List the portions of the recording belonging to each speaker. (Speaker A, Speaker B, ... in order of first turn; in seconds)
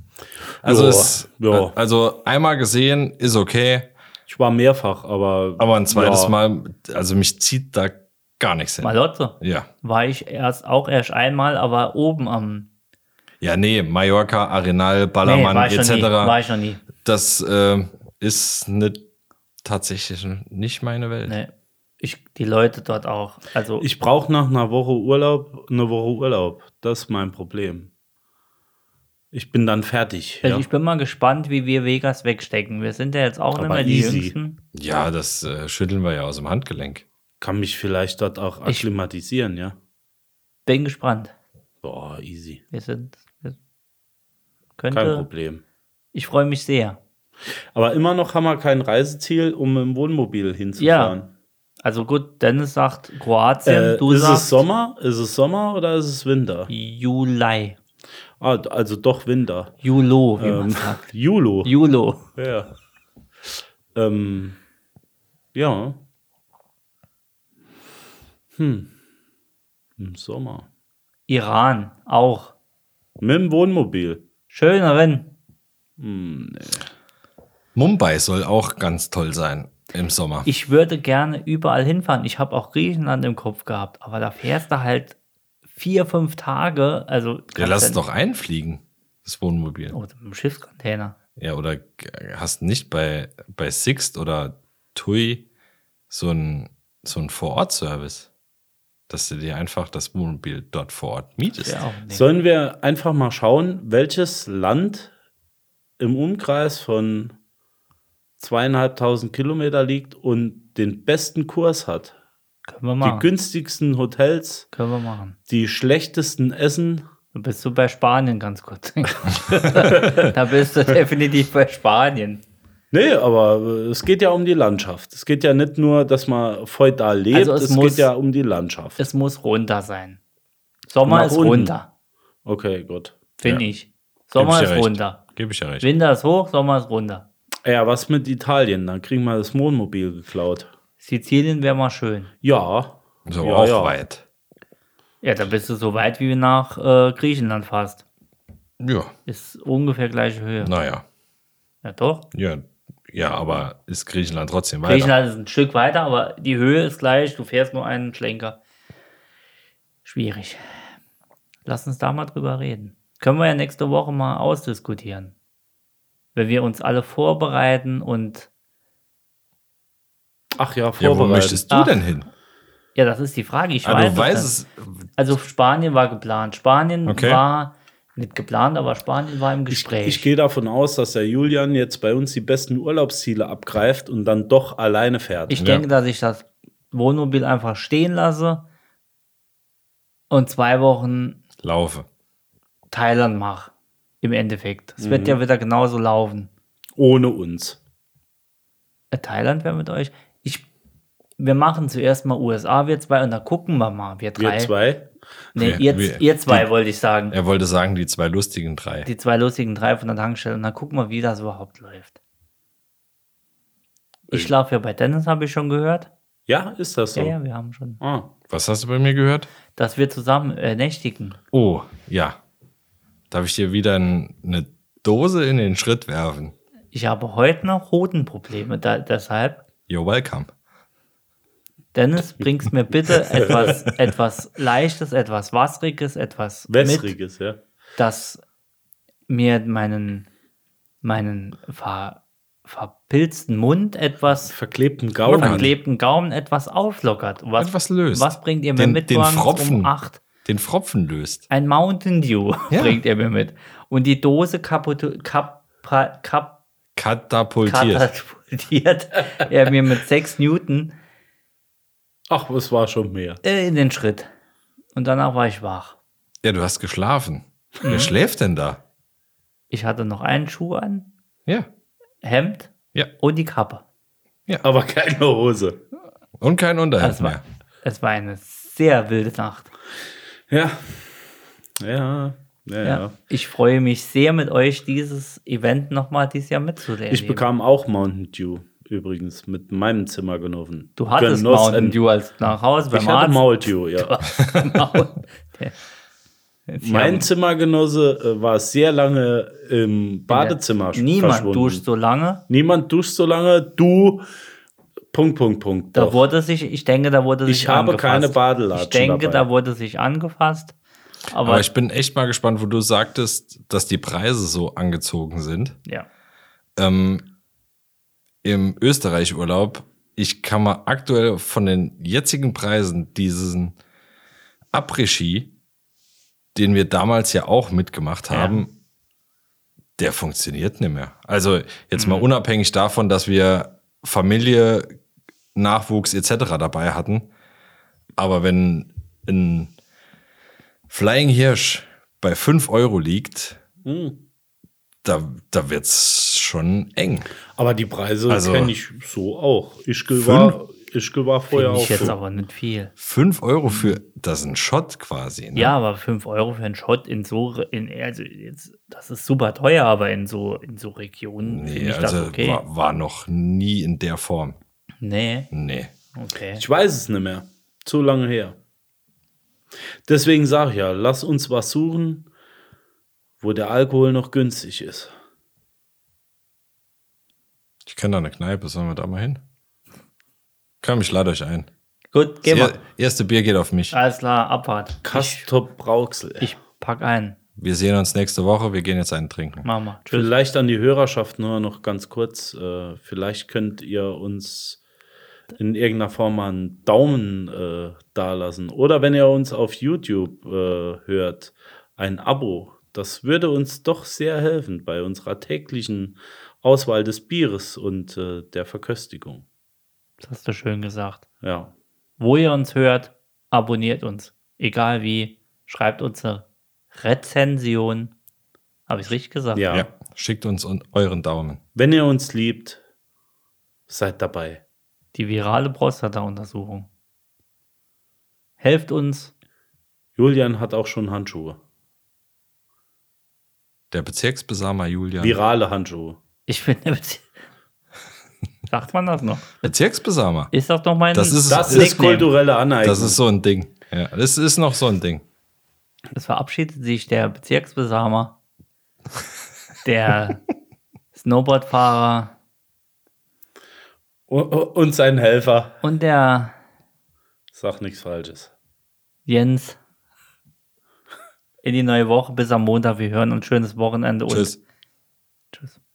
Speaker A: 0.6-1.7, 4.3-6.3, 23.8-27.9, 29.3-30.7, 33.5-34.3, 37.4-39.8, 41.8-42.6, 44.9-45.6, 47.7-51.3, 53.6-56.7, 58.4-59.8, 60.4-61.7, 62.4-62.7, 63.9-64.6, 65.5-66.0, 68.6-68.9, 70.0-70.7, 73.2-74.2, 76.0-76.9, 102.1-105.1, 106.0-107.3, 108.4-112.1, 113.0-114.7, 115.5-117.0, 119.7-120.3, 122.9-129.0, 131.0-131.7, 132.4-133.2, 137.6-140.7, 142.4-143.9, 170.6-171.7, 179.7-185.6, 195.0-195.4, 197.0-197.8, 204.4-205.1, 216.5-217.3, 218.0-218.3, 236.7-237.6, 244.5-245.8, 262.3-263.4, 274.6-275.8, 280.5-280.9, 281.8-283.1, 287.1-292.0, 292.9-294.2, 296.8-301.8, 302.5-304.2, 305.1-306.2, 307.4-309.4, 343.8-344.2, 347.6-352.2, 366.6-368.6, 370.1-372.3, 373.4-375.1, 385.0-386.5, 390.1-394.8, 395.6-409.4, 411.4-411.7, 419.5-419.9, 421.7-422.8, 423.9-424.6, 430.2-431.6, 435.2-436.2, 441.5-443.2, 454.3-455.8, 457.5-458.5
Speaker B: 0.6-3.9, 5.6-9.7, 13.4-16.4, 17.0-19.0, 19.6-21.4, 34.7-37.0, 77.7-80.5, 87.5-90.0, 91.4-95.5, 96.1-98.3, 99.1-101.8, 134.3-135.9, 143.3-144.2, 148.8-149.1, 150.6-151.0, 152.3-155.1, 171.0-172.3, 173.8-175.2, 177.1-177.4, 185.5-185.8, 191.6-192.1, 205.6-206.7, 207.3-209.1, 218.5-219.5, 221.5-222.4, 223.3-226.5, 229.9-230.5, 233.5-233.8, 245.3-245.7, 247.6-249.9, 250.4-251.4, 252.7-253.0, 256.9-258.1, 266.4-268.8, 276.4-277.4, 294.5-294.8, 311.4-315.8, 316.8-317.2, 318.4-323.8, 324.7-325.5, 326.5-328.7, 330.0-334.9, 335.5-337.3, 338.2-339.7, 340.9-343.6, 345.0-347.3, 348.3-348.7, 350.1-350.6, 353.0-355.7, 361.4-364.6, 365.5-365.9, 377.9-379.4, 380.8-381.7, 382.4-383.9, 387.6-389.6, 419.7-421.6, 433.9-435.4, 439.6-440.5, 441.1-442.0, 442.8-445.2, 464.3-464.6
Speaker C: 8.8-12.7, 15.2-16.8, 21.3-23.8, 30.4-34.6, 40.6-41.3, 42.7-43.5, 44.8-45.2, 46.1-47.0, 50.8-51.1, 51.8-54.6, 56.7-57.8, 59.8-61.1, 61.6-62.2, 71.3-72.5, 74.5-75.3, 80.4-85.2, 85.7-88.0, 89.9-91.1, 101.6-102.3, 112.7-113.3, 114.7-115.4, 117.3-122.4, 127.3-128.1, 129.0-130.2, 130.9-131.9, 133.4-135.2, 135.8-137.2, 141.0-142.3, 145.2-148.0, 149.2-150.7, 151.8-152.2, 154.8-158.6, 160.0-160.9, 161.6-165.3, 166.3-168.5, 171.7-172.0, 172.9-174.5, 175.2-180.3, 185.5-188.6, 190.3-191.4, 192.9-196.5, 199.1-200.7, 201.4-204.7, 205.5-207.3, 209.0-212.2, 214.3-216.1, 217.1-218.0, 219.7-221.4, 226.9-229.6, 231.9-237.1, 238.0-238.4, 239.3-240.3, 241.0-244.5, 245.2-250.2, 251.5-256.6, 257.6-260.9, 263.4-264.3, 264.9-266.0, 267.8-268.1, 269.7-271.1, 272.2-273.8, 277.0-279.7, 282.8-287.5, 291.0-295.7, 296.7-297.3, 300.3-302.4, 305.9-310.7, 311.3-311.6, 328.3-328.6, 331.9-332.3, 351.5-352.9, 355.5-362.6, 365.0-365.5, 366.1-366.6, 382.1-382.8, 383.9-385.5, 386.4-387.4, 389.6-390.3, 410.2-411.2, 412.2-418.1, 418.9-419.7, 425.1-426.9, 428.6-429.3, 436.5-437.3, 438.7-439.6, 440.5-442.3, 446.1-448.3, 449.8-450.4, 451.1-452.3, 455.8-456.6, 459.2-459.8, 461.6-464.6, 465.5-465.8